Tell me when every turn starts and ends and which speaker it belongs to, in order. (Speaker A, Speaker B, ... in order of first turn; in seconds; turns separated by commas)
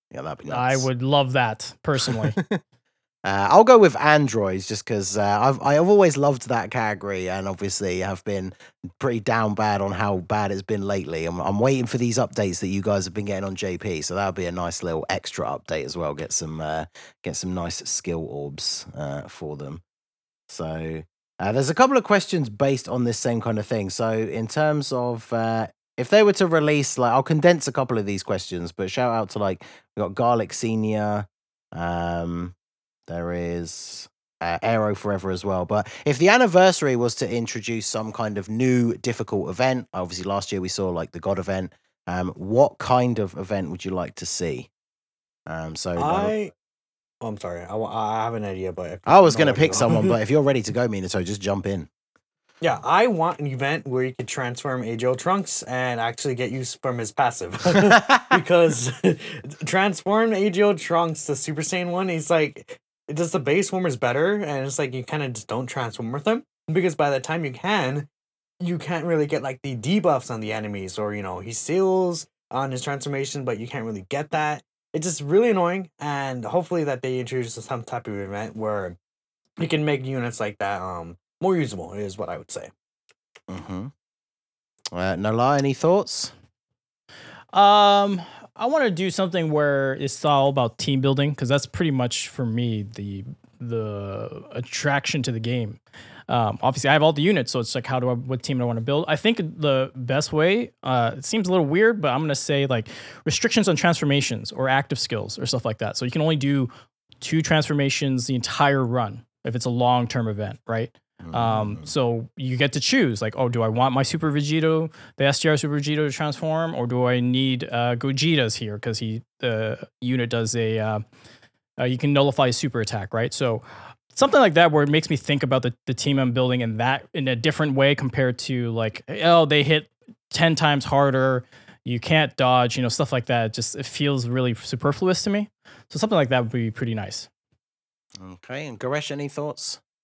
Speaker A: 0.1-0.9, Speaker B: 0.5-2.4, Speaker A: 2.0-2.6, Speaker A: 3.2-19.8, Speaker A: 20.5-32.5, Speaker A: 33.1-44.7, Speaker A: 45.5-46.3, Speaker C: 46.0-46.5, Speaker C: 47.2-50.1, Speaker A: 49.1-51.9, Speaker C: 52.6-68.1, Speaker A: 57.9-58.4, Speaker C: 68.6-79.0, Speaker C: 79.6-82.7, Speaker A: 83.5-83.9, Speaker A: 84.9-86.3, Speaker B: 87.5-106.7, Speaker B: 107.2-121.0, Speaker A: 111.2-111.9, Speaker B: 121.8-137.3, Speaker A: 138.2-139.8